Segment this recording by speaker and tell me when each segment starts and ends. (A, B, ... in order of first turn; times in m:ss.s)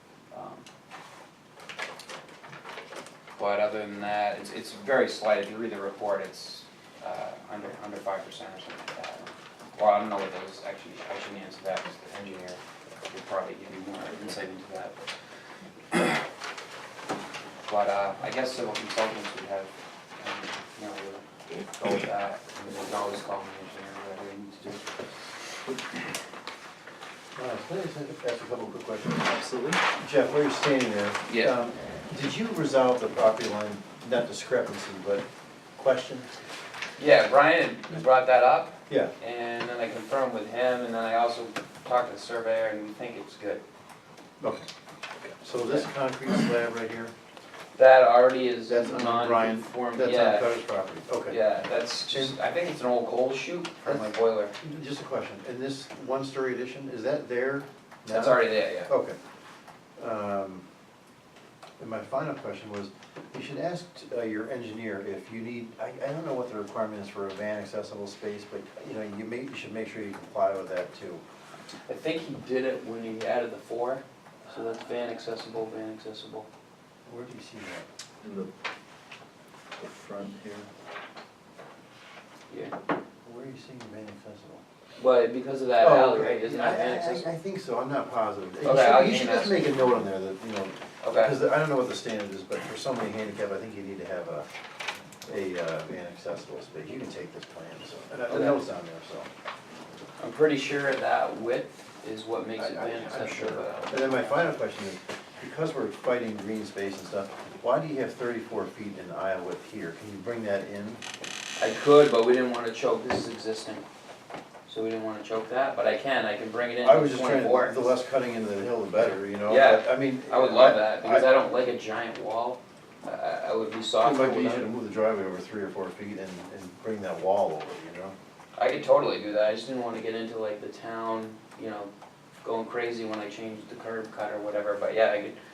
0:00.3-0:00.6 A
0:03.4-0:15.0 A
0:15.9-0:16.2 A
0:17.6-0:25.3 A
0:25.7-0:26.0 B
0:27.4-0:29.3 C
0:29.2-0:29.8 B
0:30.0-0:35.2 C
0:31.3-0:31.5 A
0:35.8-0:36.4 C
0:37.0-0:43.6 A
0:44.4-0:44.7 C
0:45.4-0:47.1 C
0:47.8-0:50.5 A
0:48.7-0:51.4 C
0:51.3-0:54.5 A
0:52.1-0:52.4 C
0:53.8-0:59.2 C
0:58.1-0:58.9 A
1:00.0-1:00.6 C
1:01.8-1:11.2 C
1:11.9-1:16.5 A
1:17.0-1:17.9 C
1:18.2-1:18.5 B
1:19.8-1:20.7 B
1:22.5-1:22.7 A
1:23.2-1:24.6 C
1:25.0-1:27.3 A
1:25.8-1:34.5 C
1:28.6-1:29.7 A
1:31.0-1:31.3 A
1:35.2-1:39.3 C
1:38.3-1:38.6 A
1:40.2-1:44.6 A
1:42.6-1:51.0 C
1:51.6-1:53.8 A
1:54.7-1:57.8 A
1:56.8-2:01.3 C
1:59.5-2:04.7 A
2:04.0-2:08.2 C
2:08.6-2:11.9 A
2:12.4-2:15.4 A